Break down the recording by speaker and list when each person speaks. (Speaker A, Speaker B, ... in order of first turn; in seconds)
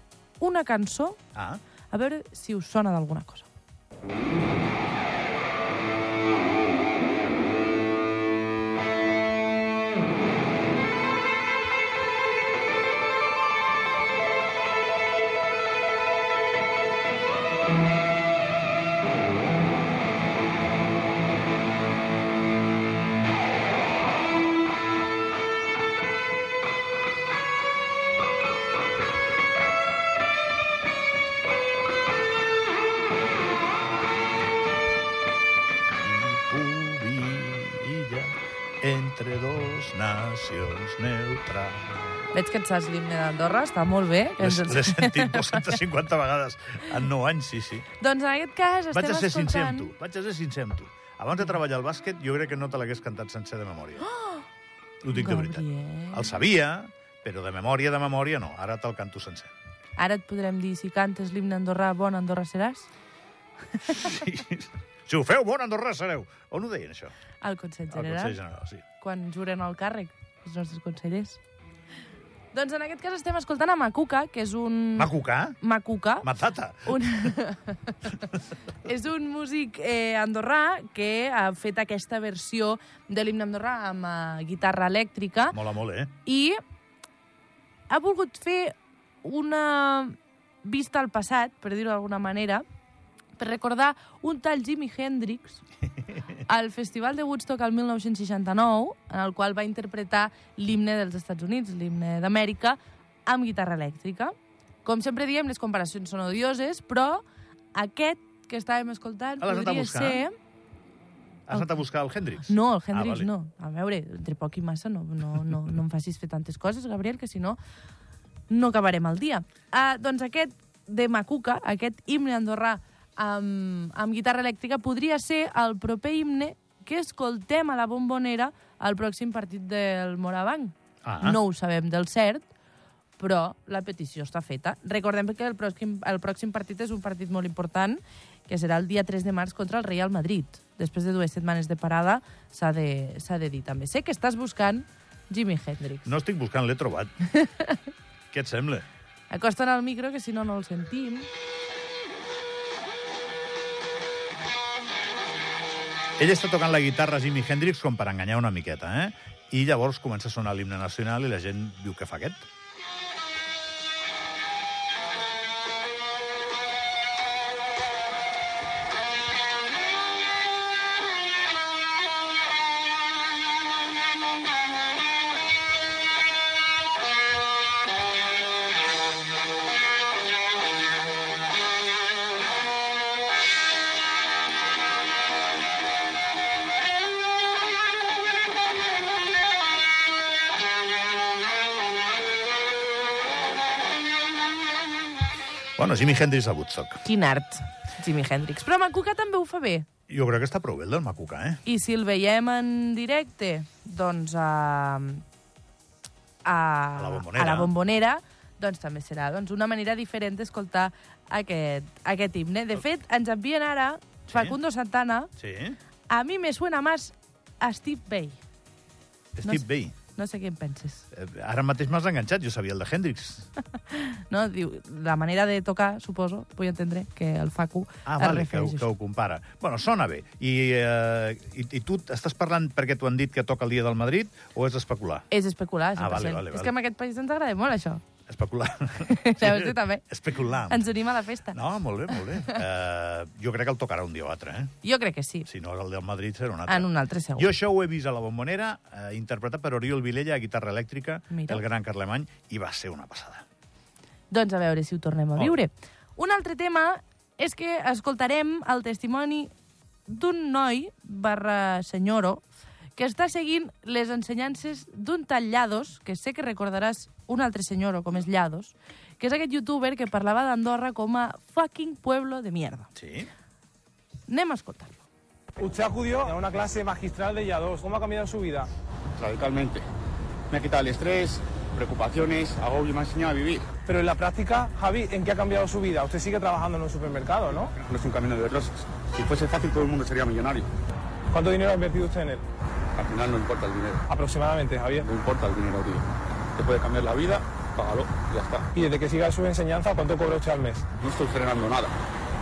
Speaker A: 0.4-1.2, 1.9-3.5, 42.3-45.8, 48.0-49.9, 54.2-54.4, 55.1-56.3, 60.0-62.9, 67.4-68.4, 69.0-71.4, 72.5-76.3, 76.9-78.2, 78.8-85.6, 86.2-86.6, 87.9-92.6, 93.4-95.6, 96.5-104.3, 104.8-110.3, 112.5-117.6, 118.5-132.4, 133.2-146.1, 147.4-147.8, 149.3-151.3, 197.0-199.8, 201.6-205.2, 206.4-215.3, 216.1-218.4, 219.4-221.1, 223.9-228.9, 235.3-238.0, 239.1-240.0, 240.7-241.6, 244.8-245.5, 246.7-247.5, 251.3-251.6, 254.3-259.5, 260.1-262.4, 262.9-272.9, 274.3-275.0
Speaker B: 1.3-1.6, 36.0-42.3, 44.4-47.9, 48.9-54.1, 55.0-59.5, 63.8-67.1, 67.9-68.8, 75.0-75.6, 76.2-77.3, 85.5-86.1, 109.4-110.2, 111.5-113.3, 131.0-131.4, 146.1-147.1, 148.3-148.8, 156.2-162.4, 195.8-197.0, 200.1-201.6, 207.0-207.7, 215.4-215.8, 219.4-219.9, 221.1-223.5, 228.1-235.2, 236.0-236.7, 238.3-240.9, 241.5-244.7, 245.5-253.4, 272.9-273.3
Speaker C: 275.6-278.7, 283.9-287.7, 291.3-292.4, 294.1-295.1, 298.7-300.9
Speaker D: 279.2-279.8, 280.5-283.7, 287.8-290.7, 292.9-294.0, 295.0-298.7, 300.9-301.9